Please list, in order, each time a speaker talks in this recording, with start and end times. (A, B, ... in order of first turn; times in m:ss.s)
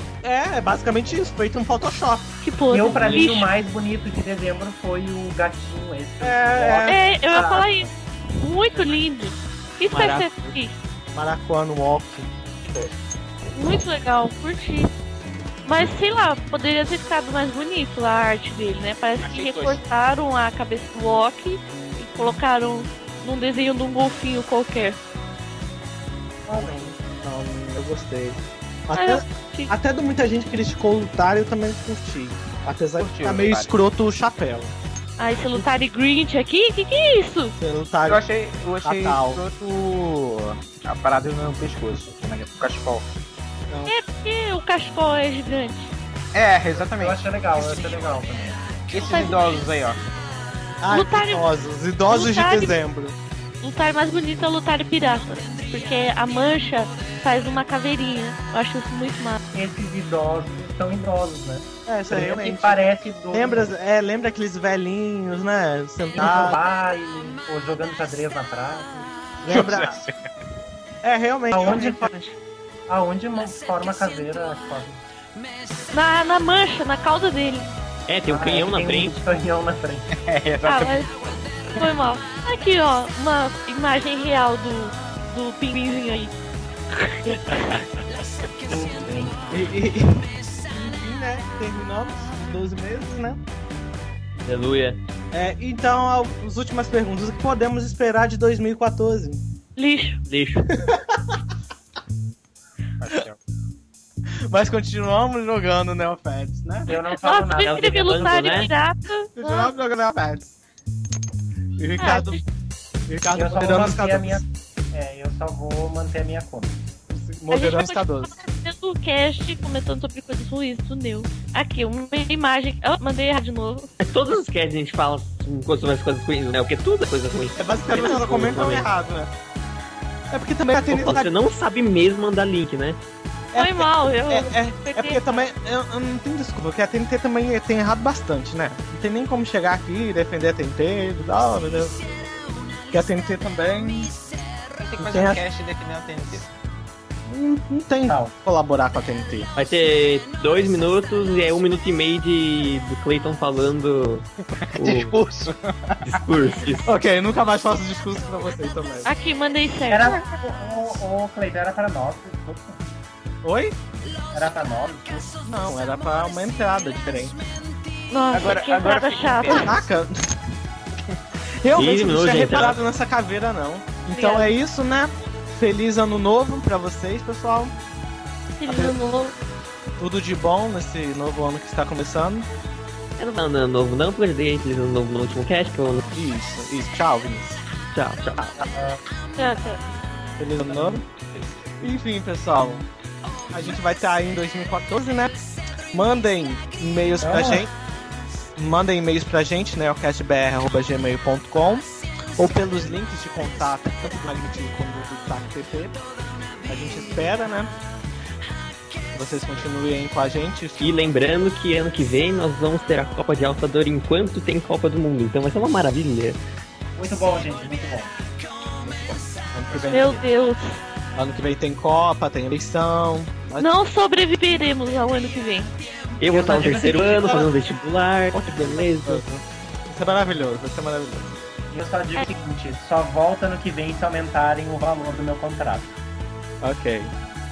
0:00.2-0:02.4 A
0:01.0-0:01.3 B
0:02.4-0:03.5 C
0:02.7-0:07.9 B
0:06.2-0:07.0 A
0:06.9-0:10.7 C
0:09.9-0:10.6 A
0:11.1-0:12.3 A
0:13.5-0:14.9 C
0:15.6-0:25.0 C
0:19.2-0:19.8 D
0:26.5-0:34.7 A
0:26.5-0:26.8 B
0:28.9-0:29.7 C
0:33.0-0:33.7 D
0:35.2-0:37.6 C
0:37.6-0:38.2 A
0:38.1-0:43.0 D
0:38.8-0:39.4 A
0:43.7-0:43.9 A
0:43.9-0:45.9 C
0:46.3-0:47.2 D
0:46.8-0:48.7 B
0:48.9-0:50.0 D
0:49.0-0:49.6 C
0:50.8-0:53.2 A
0:50.9-0:51.4 C
0:52.1-0:52.8 C
0:53.6-0:59.4 C
0:59.5-1:03.7 B
1:01.8-1:06.6 A
1:06.1-1:08.9 B
1:09.4-1:10.0 A
1:09.5-1:10.1 D
1:11.0-1:12.1 A
1:11.5-1:12.1 B
1:12.0-1:12.3 C
1:12.9-1:15.0 B
1:15.9-1:17.7 C
1:18.1-1:19.2 E
1:18.3-1:20.1 B
1:20.2-1:21.0 D
1:20.6-1:21.1 C
1:21.7-1:26.3 C
1:26.9-1:27.6 C
1:27.3-1:27.8 E
1:28.6-1:29.4 B
1:29.5-1:33.4 A
1:34.4-1:35.0 E
1:35.3-1:39.4 A
1:39.8-1:40.2 C
1:40.2-1:40.8 E
1:40.7-1:41.3 A
1:43.0-1:43.4 D
1:44.5-1:46.9 A
1:46.9-1:48.6 B
1:46.9-1:49.7 C
1:47.6-1:48.7 E
1:49.4-1:50.5 A
1:51.8-1:52.4 A
1:52.0-1:52.4 C
1:53.1-1:54.4 A
1:53.3-1:56.8 B
1:57.1-1:58.3 A
1:57.5-2:03.9 C
2:04.0-2:08.9 E
2:07.3-2:09.3 A
2:10.3-2:11.3 A
2:10.9-2:13.0 E
2:13.5-2:22.1 A
2:13.5-2:15.4 C
2:22.9-2:24.1 A
2:24.8-2:26.5 D
2:25.0-2:25.4 A
2:27.2-2:29.5 A
2:28.1-2:28.3 B
2:29.5-2:35.2 E
2:34.5-2:36.2 D
2:36.0-2:36.9 E
2:36.8-2:39.1 A
2:39.0-2:40.2 C
2:39.9-2:42.8 B
2:43.4-2:43.8 A
2:44.3-2:45.3 B
2:45.3-2:47.4 A
2:48.1-2:49.8 C
2:48.3-2:49.7 D
2:49.5-2:50.4 A
2:51.6-2:57.7 A
2:51.7-2:52.8 E
2:54.1-2:54.5 C
2:58.6-2:59.3 C
2:58.6-2:59.0 A
3:00.0-3:02.5 A
3:03.2-3:06.1 E
3:06.1-3:07.6 A
3:07.9-3:08.5 E
3:08.6-3:09.0 B
3:09.4-3:09.8 C
3:10.4-3:11.0 A
3:11.3-3:11.7 D
3:11.8-3:12.8 A
3:13.5-3:15.4 A
3:15.9-3:17.7 A
3:17.2-3:17.7 B
3:18.6-3:26.0 A
3:26.7-3:27.7 A
3:29.1-3:31.0 A
3:30.8-3:36.4 E
3:37.0-3:38.1 B
3:38.8-3:40.2 A
3:39.9-3:40.8 C
3:41.1-3:43.8 A
3:43.6-3:45.7 C
3:46.2-3:49.2 E
3:46.2-3:47.5 B
3:48.6-3:51.4 A
3:51.7-3:56.0 B
3:56.6-3:57.1 A